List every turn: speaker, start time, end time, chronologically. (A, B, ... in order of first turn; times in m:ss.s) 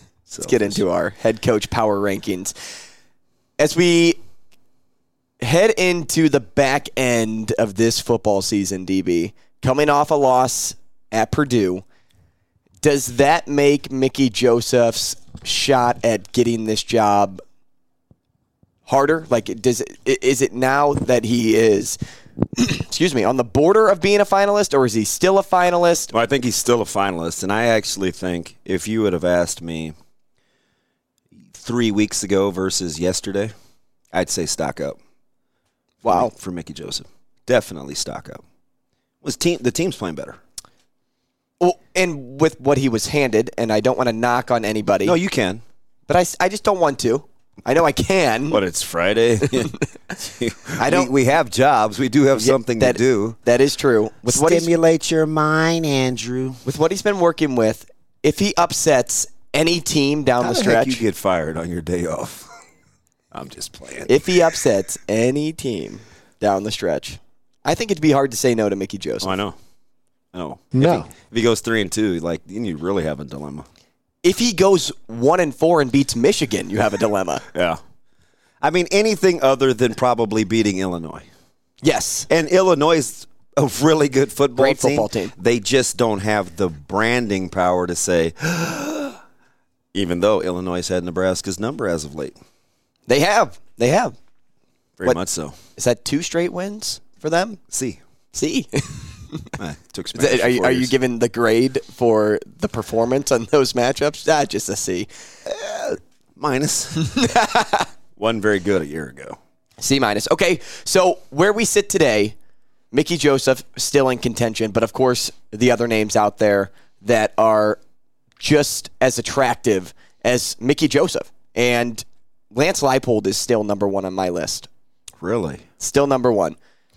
0:00.3-0:00.8 A
0:00.4-0:02.5 B
0:03.6-0:04.2 B
0:05.4-0:11.8 B
0:12.8-0:17.4 B
0:18.8-0:22.0 B
0:22.6-0:26.1 B
0:26.1-0:29.9 A
0:31.5-0:33.5 A
0:34.1-0:35.0 A
0:36.0-0:36.3 B
0:36.0-0:38.4 A
0:39.2-0:40.4 A
0:41.6-0:45.2 B
0:45.0-0:45.6 A
0:46.1-0:48.6 B
0:48.5-0:53.4 A
0:49.5-0:49.8 B
0:50.8-0:51.1 B
0:52.4-0:54.7 B
0:54.2-0:56.6 A
0:56.6-1:01.0 B
1:00.4-1:02.5 A
1:03.3-1:04.2 A
1:04.1-1:09.3 B
1:09.2-1:09.6 A
1:10.3-1:13.6 A
1:14.2-1:17.4 B
1:17.5-1:17.8 A
1:18.6-1:21.3 A
1:21.8-1:22.3 B
1:22.3-1:29.2 A
1:24.6-1:25.3 B
1:29.9-1:32.4 A
1:33.1-1:34.1 B
1:35.0-1:35.6 A
1:35.8-1:37.6 B
1:37.7-1:38.0 A
1:38.3-1:39.5 B
1:39.6-1:40.9 A
1:40.1-1:45.1 B
1:45.4-1:47.1 A
1:47.0-1:47.9 B
1:48.2-1:49.4 A
1:49.8-1:52.3 B
1:52.9-1:57.8 B
1:58.4-2:04.7 B
2:05.2-2:05.6 A
2:05.8-2:06.6 B